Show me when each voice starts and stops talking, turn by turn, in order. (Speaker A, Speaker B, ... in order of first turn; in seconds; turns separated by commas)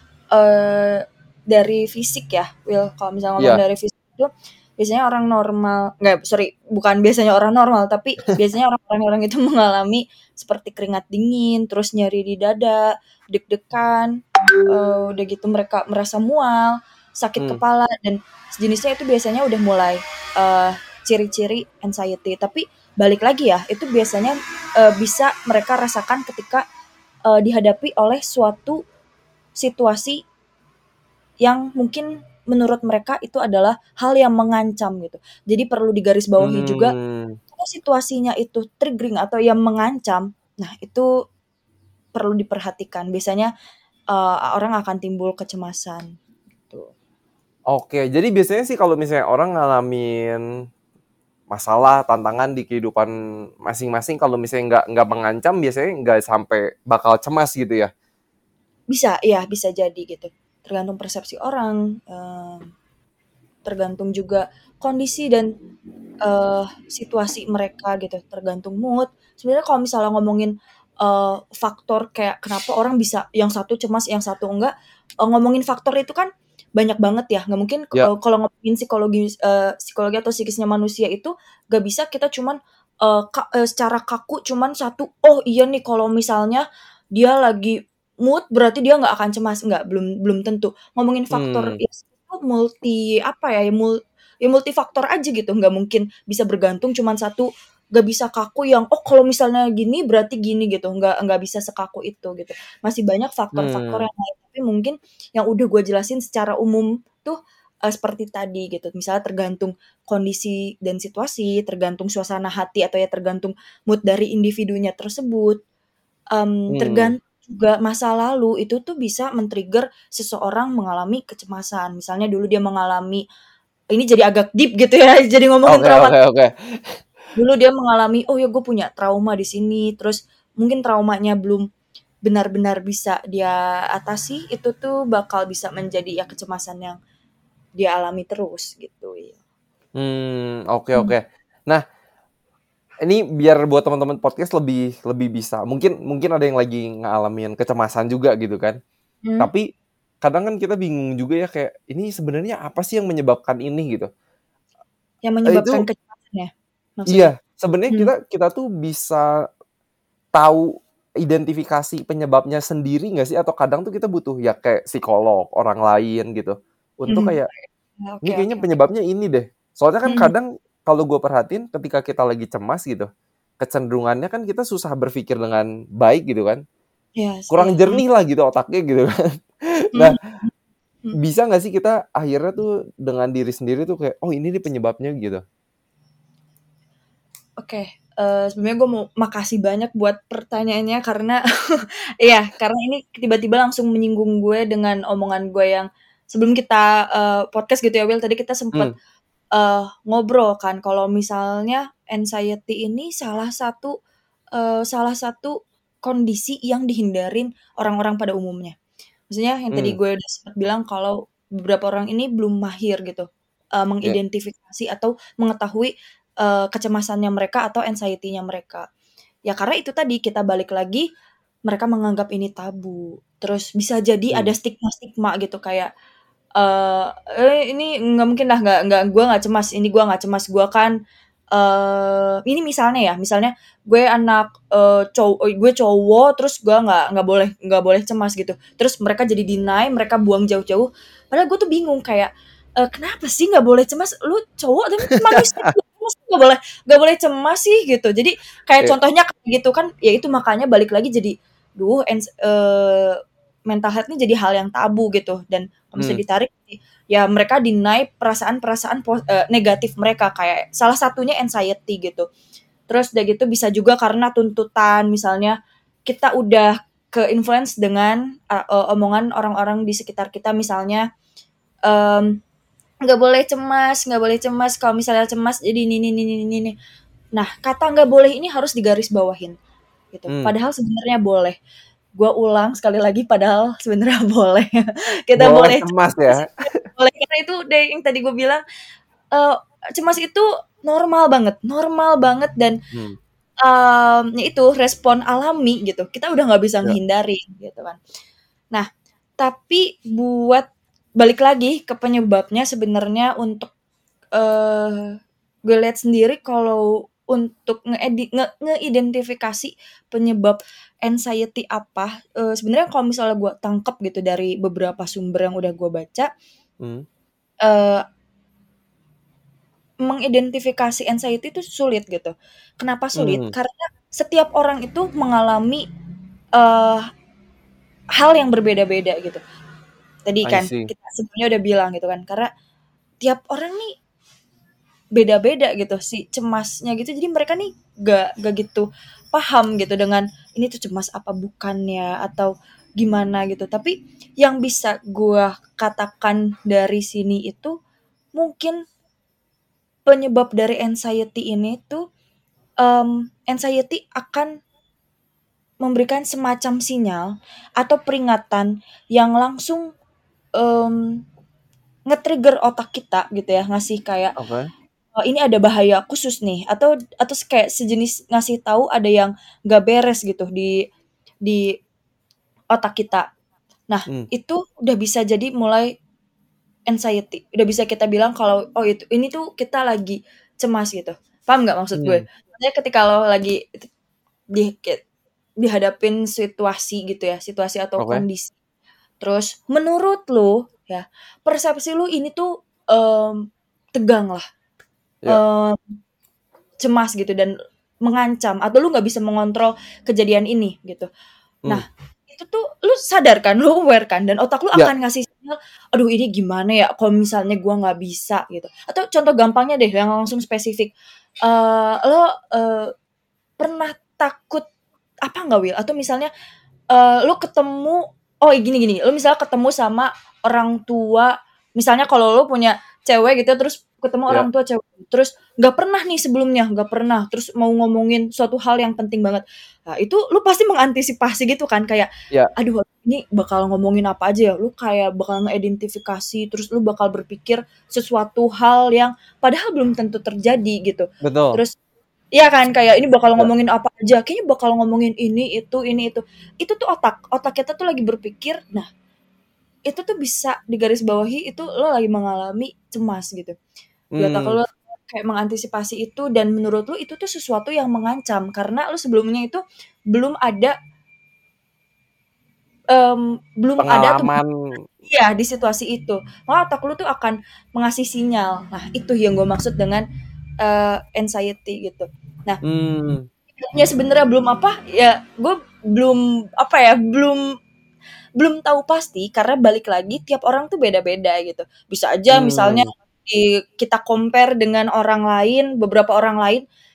Speaker A: 0.3-26.6, Speaker A: 27.3-28.8, Speaker A: 29.6-30.2, Speaker A: 31.4-36.9, Speaker B: 36.4-37.4, Speaker A: 37.5-41.1, Speaker A: 42.1-43.5, Speaker A: 44.1-46.2, Speaker B: 47.7-50.5, Speaker B: 51.5-53.1, Speaker B: 53.6-57.9, Speaker A: 58.9-62.7, Speaker A: 63.7-65.5, Speaker A: 66.2-115.6, Speaker B: 91.3-91.8, Speaker B: 103.5-104.0, Speaker A: 116.3-123.2, Speaker B: 116.7-117.1, Speaker A: 123.9-126.2, Speaker B: 125.7-126.5, Speaker A: 127.3-131.7, Speaker A: 132.2-137.0, Speaker A: 137.8-139.3, Speaker B: 140.0-141.8, Speaker B: 143.0-148.8, Speaker B: 149.4-149.7, Speaker B: 150.2-154.1, Speaker A: 155.2-157.3, Speaker B: 155.5-155.8, Speaker B: 157.1-159.3, Speaker B: 160.3-167.5, Speaker A: 167.1-168.7, Speaker B: 168.2-173.1, Speaker A: 170.1-170.3, Speaker B: 173.6-176.6, Speaker A: 177.2-178.0, Speaker B: 177.5-180.2, Speaker A: 180.0-180.5, Speaker B: 181.2-185.4, Speaker A: 187.6-198.9, Speaker A: 199.5-203.9, Speaker A: 204.6-208.8, Speaker A: 209.3-218.9, Speaker A: 219.5-221.1, Speaker A: 221.7-225.9, Speaker A: 226.6-230.9, Speaker A: 231.5-253.2, Speaker B: 245.1-245.4, Speaker A: 253.7-262.3, Speaker A: 262.9-265.6, Speaker A: 266.1-271.1, Speaker A: 271.9-272.4, Speaker A: 273.1-276.8, Speaker A: 277.4-279.6, Speaker A: 280.1-281.6, Speaker A: 282.2-288.6, Speaker B: 285.4-286.5, Speaker A: 289.3-292.8, Speaker A: 293.6-298.0, Speaker A: 299.4-303.7, Speaker A: 304.4-305.1, Speaker A: 305.7-316.3, Speaker B: 316.8-317.1, Speaker A: 317.6-318.0, Speaker A: 320.0-325.9, Speaker B: 323.2-323.5, Speaker A: 326.6-327.1, Speaker A: 328.2-329.4, Speaker A: 330.3-332.5, Speaker B: 330.4-330.9, Speaker A: 333.2-333.9, Speaker A: 335.1-347.8, Speaker A: 348.4-348.8, Speaker A: 350.1-352.0, Speaker A: 352.8-354.6, Speaker A: 355.8-359.9, Speaker A: 360.6-361.2, Speaker A: 362.1-364.4, Speaker B: 364.4-364.7, Speaker A: 365.2-370.8, Speaker A: 371.4-371.8, Speaker A: 372.7-373.3, Speaker A: 373.9-375.9, Speaker A: 376.9-383.9, Speaker B: 382.0-382.2, Speaker A: 384.5-385.0, Speaker A: 385.6-388.6, Speaker B: 388.0-388.2, Speaker A: 389.2-393.4, Speaker A: 393.9-394.4, Speaker A: 395.3-395.8, Speaker A: 396.8-401.1, Speaker A: 401.7-410.9, Speaker A: 411.4-412.9, Speaker A: 413.6-414.7, Speaker A: 415.2-416.3, Speaker A: 416.9-441.7, Speaker B: 441.2-441.6, Speaker A: 442.4-448.9, Speaker A: 449.9-453.6, Speaker B: 454.1-454.6, Speaker A: 454.2-459.6, Speaker A: 460.1-460.7, Speaker A: 462.9-464.4, Speaker B: 463.8-464.8, Speaker A: 465.1-470.1, Speaker A: 470.6-472.6, Speaker B: 472.6-473.2, Speaker A: 473.6-477.4, Speaker A: 478.4-486.6, Speaker B: 482.3-482.9